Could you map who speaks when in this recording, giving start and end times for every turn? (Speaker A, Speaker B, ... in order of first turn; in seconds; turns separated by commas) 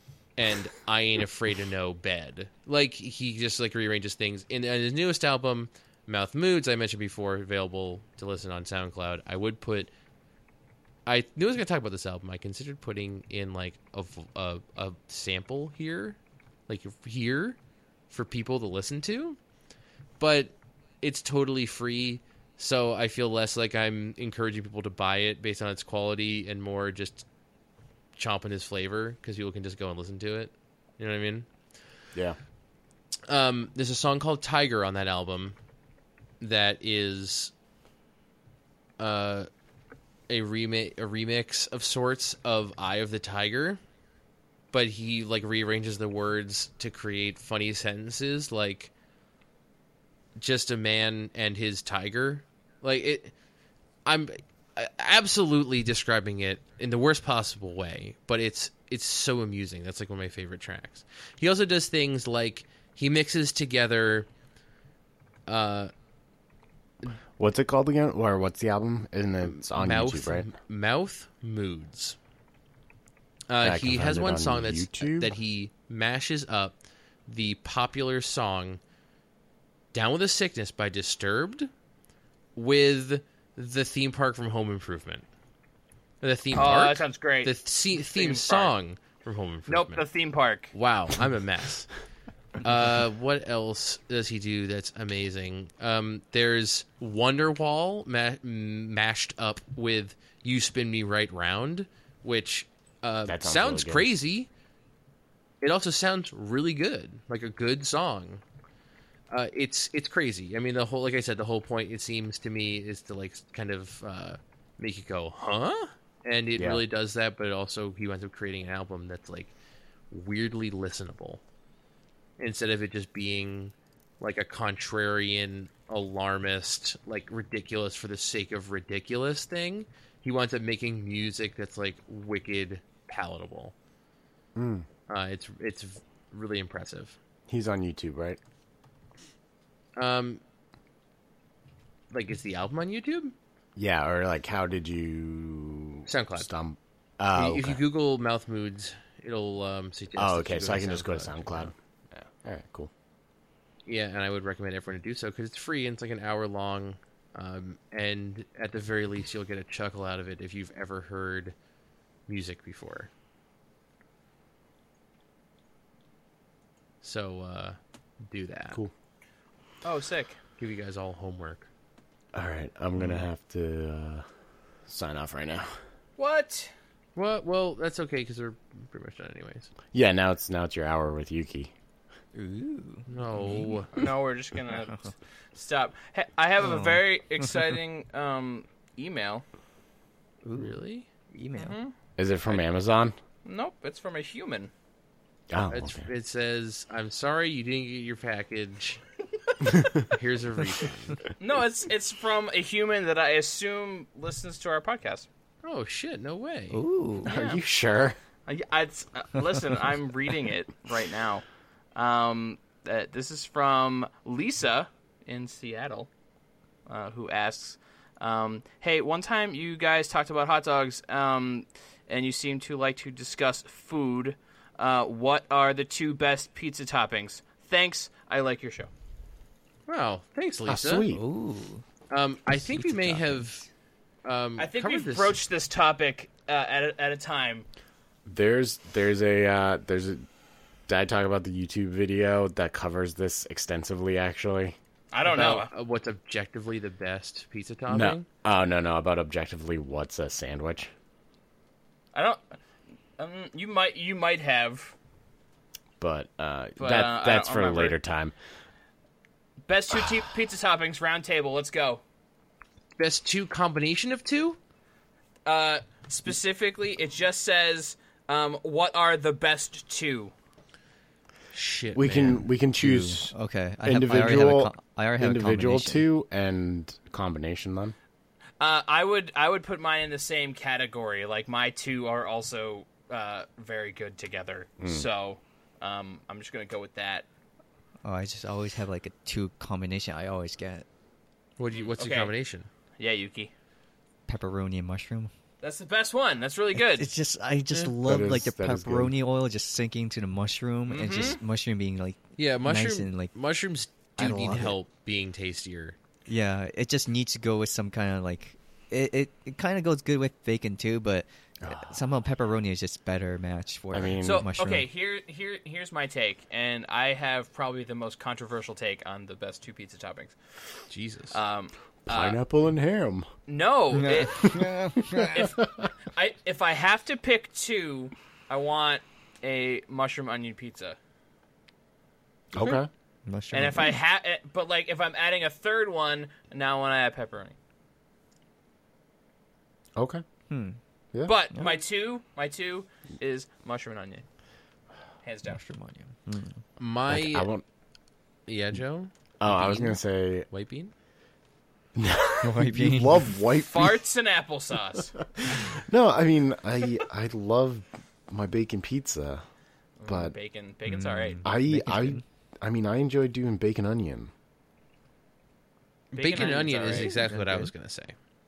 Speaker A: 0.4-9.9, Speaker A: 11.1-17.6, Speaker A: 18.1-19.4, Speaker A: 20.2-27.2, Speaker A: 28.2-31.5, Speaker A: 33.3-35.6, Speaker A: 36.4-37.5, Speaker A: 39.0-39.5, Speaker A: 40.3-43.8, Speaker A: 44.7-48.9, Speaker A: 50.4-53.3, Speaker A: 54.1-64.3, Speaker A: 65.5-65.9, Speaker B: 67.4-70.5, Speaker A: 69.4-72.2, Speaker A: 73.5-78.8, Speaker B: 73.6-75.3, Speaker A: 79.9-81.7, Speaker A: 82.6-85.3, Speaker A: 86.2-90.0, Speaker C: 86.5-87.5, Speaker C: 88.1-88.7, Speaker C: 89.7-90.7, Speaker A: 90.7-91.9, Speaker A: 92.6-104.5, Speaker B: 103.3-104.1, Speaker A: 105.6-108.4, Speaker A: 109.3-119.5, Speaker B: 116.6-116.8, Speaker A: 120.1-121.4, Speaker A: 122.4-133.7, Speaker B: 134.6-134.9, Speaker A: 135.1-137.2, Speaker B: 137.5-138.4, Speaker A: 140.0-140.4, Speaker A: 142.1-143.3, Speaker B: 143.8-147.8, Speaker A: 146.1-146.5, Speaker A: 147.3-151.7, Speaker B: 150.2-152.9, Speaker A: 153.9-161.6, Speaker A: 162.3-163.1, Speaker A: 167.0-168.8, Speaker C: 169.8-170.4, Speaker A: 170.6-171.7, Speaker B: 172.3-174.3, Speaker B: 174.9-175.8, Speaker C: 176.2-176.7, Speaker A: 177.2-179.7, Speaker B: 179.9-181.7, Speaker D: 182.3-183.8, Speaker A: 183.1-183.9, Speaker C: 183.9-189.4, Speaker D: 186.6-187.0, Speaker D: 190.4-190.8, Speaker A: 190.6-191.1, Speaker D: 191.3-191.8, Speaker C: 191.6-191.9, Speaker B: 192.2-193.2, Speaker C: 193.4-194.7, Speaker B: 195.5-196.1, Speaker A: 195.7-199.0, Speaker B: 199.6-200.1, Speaker A: 200.0-201.2, Speaker C: 201.4-205.3, Speaker A: 205.6-206.8, Speaker D: 206.7-207.3, Speaker C: 207.2-207.6, Speaker B: 207.2-208.2, Speaker C: 208.5-216.1, Speaker C: 216.9-228.9, Speaker A: 229.9-231.1, Speaker B: 230.7-231.2, Speaker D: 231.1-231.8, Speaker A: 232.1-233.6, Speaker D: 232.5-233.6, Speaker A: 234.2-235.4, Speaker C: 234.6-237.7, Speaker B: 238.3-240.2, Speaker B: 240.9-244.8, Speaker C: 245.1-245.7, Speaker A: 245.3-248.3, Speaker B: 247.9-250.9, Speaker C: 252.1-252.6, Speaker C: 253.2-254.9, Speaker B: 256.0-258.4, Speaker C: 256.8-258.0, Speaker C: 259.7-262.0, Speaker A: 263.0-264.6, Speaker C: 265.5-270.3, Speaker A: 271.5-272.4, Speaker B: 271.9-273.3, Speaker D: 272.8-276.1, Speaker B: 273.9-277.9, Speaker C: 278.6-287.3, Speaker B: 284.8-285.1, Speaker D: 288.0-290.9, Speaker A: 291.6-292.7, Speaker C: 291.7-292.3, Speaker C: 293.0-293.5, Speaker D: 294.3-295.3, Speaker C: 295.6-297.1, Speaker D: 296.8-303.3, Speaker B: 298.0-299.1, Speaker C: 300.9-301.4, Speaker A: 302.4-306.0, Speaker D: 304.2-304.8, Speaker D: 306.3-314.9, Speaker B: 311.6-311.9, Speaker B: 313.9-314.5, Speaker C: 314.2-322.4, Speaker A: 320.9-321.4, Speaker B: 322.1-323.3, Speaker C: 323.5-324.6, Speaker D: 324.0-325.4, Speaker B: 325.2-325.9, Speaker C: 325.3-331.0, Speaker B: 332.5-332.9, Speaker D: 333.3-334.0, Speaker C: 333.5-337.6, Speaker B: 340.0-340.2, Speaker D: 340.5-340.8, Speaker C: 341.2-344.2, Speaker C: 345.2-345.6, Speaker D: 345.5-346.6, Speaker A: 346.8-347.5, Speaker B: 347.1-347.6, Speaker A: 348.5-350.0, Speaker B: 349.4-350.5, Speaker A: 350.5-350.9, Speaker B: 352.0-354.1, Speaker D: 352.4-353.4, Speaker C: 353.6-355.2, Speaker B: 355.4-359.4, Speaker C: 360.0-361.5, Speaker B: 360.1-360.4, Speaker D: 360.9-362.2, Speaker B: 361.4-364.3, Speaker A: 366.1-368.1, Speaker C: 366.1-367.1, Speaker D: 366.8-367.7